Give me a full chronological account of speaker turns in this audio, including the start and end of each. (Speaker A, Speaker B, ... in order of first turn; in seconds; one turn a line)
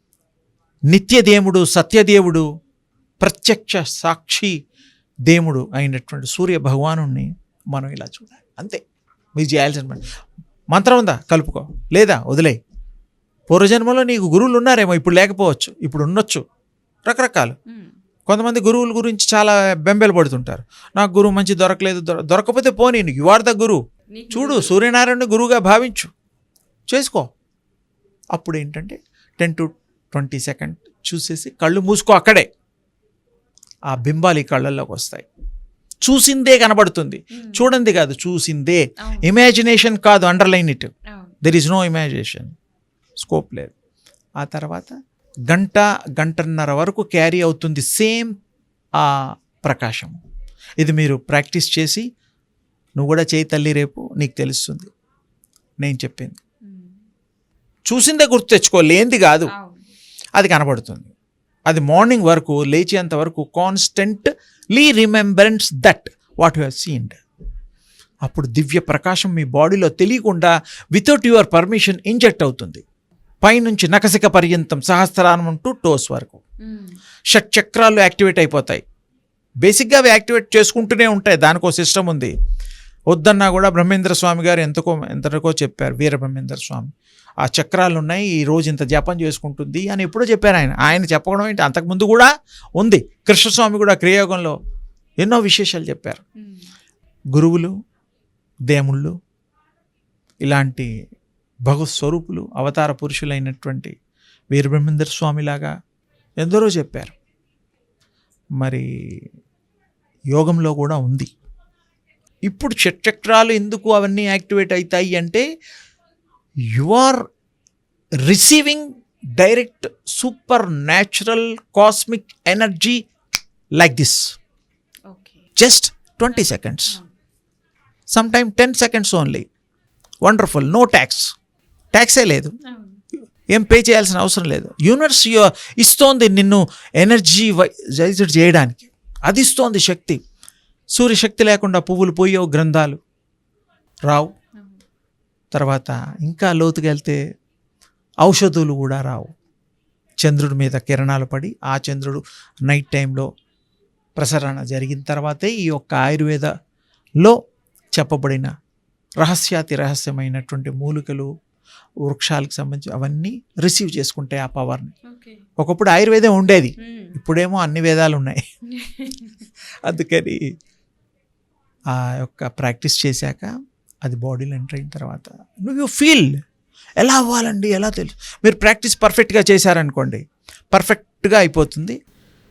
Speaker A: 0.9-2.5
Speaker A: 3.2-4.5
Speaker A: 5.3-8.8
Speaker A: 9.4-10.0
Speaker A: 10.7-12.6
Speaker A: 13.5-16.4
Speaker A: 17.1-17.5
Speaker A: 18.3-23.8
Speaker B: 24.1-24.8
Speaker A: 24.3-26.1
Speaker A: 26.9-27.2
Speaker A: 28.3-32.5
Speaker A: 33.9-35.2
Speaker A: 36.0-40.9
Speaker B: 37.3-37.6
Speaker B: 39.0-39.3
Speaker A: 41.4-42.5
Speaker A: 43.2-43.7
Speaker A: 44.4-44.9
Speaker A: 45.5-48.3
Speaker A: 49.0-50.2
Speaker A: 50.8-52.0
Speaker A: 53.0-54.9
Speaker A: 55.8-56.4
Speaker B: 56.6-57.0
Speaker A: 57.9-59.5
Speaker B: 59.5-59.9
Speaker A: 60.4-61.1
Speaker A: 61.7-67.2
Speaker A: 68.2-72.8
Speaker A: 73.4-76.4
Speaker B: 76.6-76.9
Speaker A: 77.3-78.8
Speaker A: 79.6-82.3
Speaker A: 83.1-86.9
Speaker A: 87.4-94.6
Speaker A: 95.2-96.2
Speaker B: 96.4-96.7
Speaker A: 97.3-97.7
Speaker A: 98.7-99.1
Speaker A: 100.4-100.9
Speaker A: 101.6-103.9
Speaker A: 104.5-105.7
Speaker A: 106.4-107.1
Speaker A: 108.6-108.8
Speaker A: 110.3-111.3
Speaker A: 112.5-115.4
Speaker A: 116.7-117.2
Speaker A: 118.2-123.0
Speaker A: 123.8-124.3
Speaker B: 125.1-125.4
Speaker A: 125.6-127.0
Speaker B: 126.3-127.1
Speaker A: 128.1-129.4
Speaker A: 130.2-131.3
Speaker A: 131.9-132.5
Speaker B: 132.7-133.0
Speaker A: 133.5-140.2
Speaker A: 140.9-143.0
Speaker A: 145.5-147.2
Speaker A: 148.2-149.3
Speaker A: 150.2-153.3
Speaker A: 154.2-156.5
Speaker A: 157.9-158.5
Speaker A: 159.2-161.3
Speaker A: 162.0-164.9
Speaker B: 165.1-165.4
Speaker A: 165.6-168.4
Speaker B: 166.8-167.2
Speaker B: 168.7-169.4
Speaker A: 169.8-170.4
Speaker A: 171.9-173.5
Speaker A: 174.0-176.3
Speaker A: 177.0-181.9